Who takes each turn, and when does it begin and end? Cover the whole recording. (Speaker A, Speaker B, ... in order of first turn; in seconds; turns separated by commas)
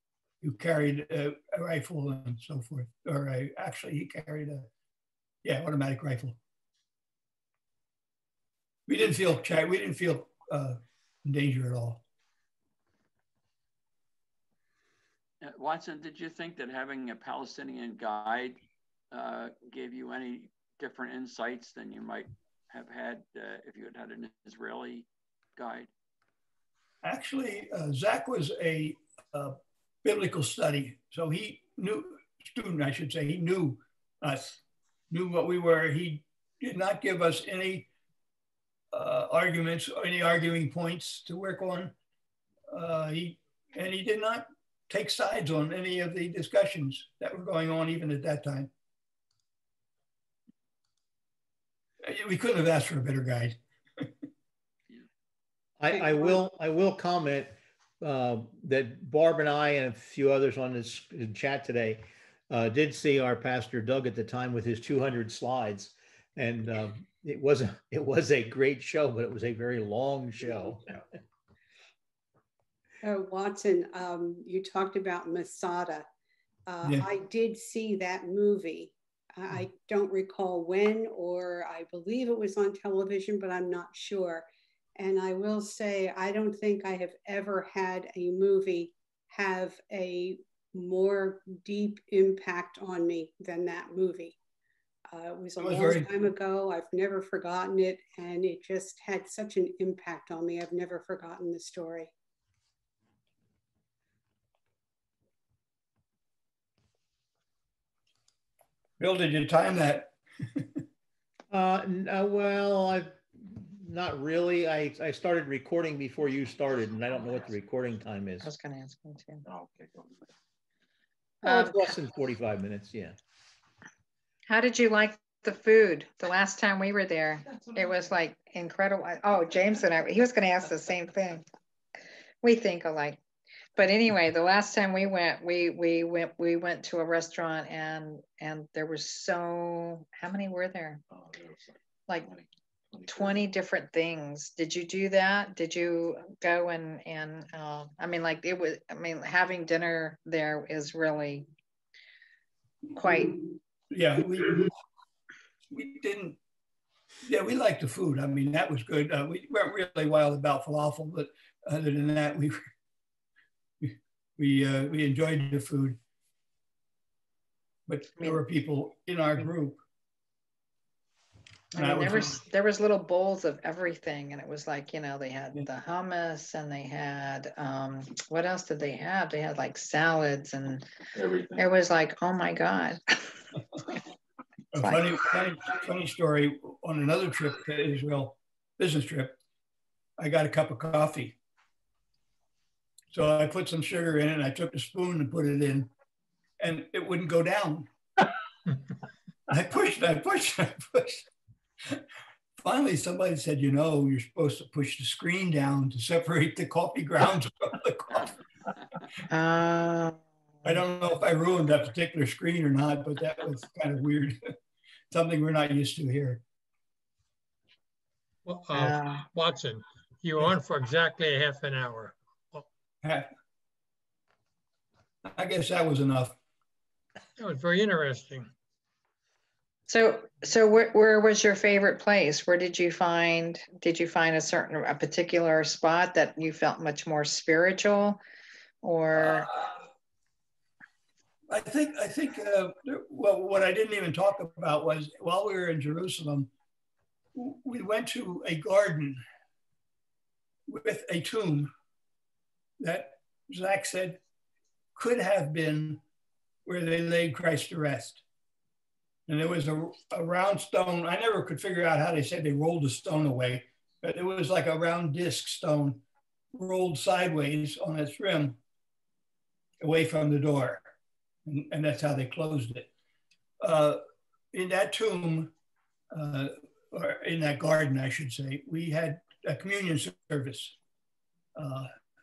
Speaker A: 0.4-4.7, Speaker A: 5.4-6.4, Speaker A: 8.9-12.0, Speaker B: 15.4-25.9, Speaker A: 27.0-37.9, Speaker A: 38.9-41.9, Speaker A: 42.7-48.7, Speaker A: 52.0-54.0, Speaker C: 55.8-71.0, Speaker D: 73.0-76.1, Speaker D: 76.7-84.5, Speaker D: 85.0-94.4, Speaker D: 95.1-102.1, Speaker A: 95.6-96.1, Speaker A: 109.0-110.8, Speaker C: 111.5-118.5, Speaker E: 118.4-119.5, Speaker E: 121.4-122.0, Speaker C: 121.4-123.2, Speaker E: 124.5-131.4, Speaker E: 132.4-133.2, Speaker E: 133.8-141.0, Speaker E: 142.1-142.4, Speaker E: 143.0-151.5, Speaker E: 152.9-153.3, Speaker A: 153.9-154.7, Speaker A: 155.7-156.4, Speaker A: 157.2-162.6, Speaker A: 163.8-166.0, Speaker A: 167.9-169.8, Speaker A: 171.7-172.4, Speaker E: 171.7-180.8, Speaker E: 181.4-183.0, Speaker A: 184.7-189.4, Speaker E: 184.8-185.1, Speaker A: 190.2-191.4, Speaker A: 193.1-195.9, Speaker A: 196.6-197.9, Speaker A: 199.5-201.3, Speaker A: 202.6-208.4, Speaker E: 209.3-210.2, Speaker A: 210.7-214.5, Speaker A: 215.1-216.4, Speaker F: 218.4-222.7, Speaker E: 218.7-219.2, Speaker A: 223.0-223.3, Speaker A: 225.3-226.4, Speaker F: 227.4-228.5, Speaker E: 229.9-238.2, Speaker E: 238.8-239.5, Speaker A: 241.5-246.5, Speaker A: 247.3-249.2, Speaker A: 250.7-251.7, Speaker A: 252.8-254.2, Speaker A: 254.9-256.0, Speaker A: 256.7-258.2, Speaker A: 259.3-268.6, Speaker A: 269.8-270.9, Speaker A: 271.5-272.9, Speaker A: 273.6-274.0, Speaker A: 274.5-275.5, Speaker A: 276.1-280.8, Speaker A: 281.6-281.9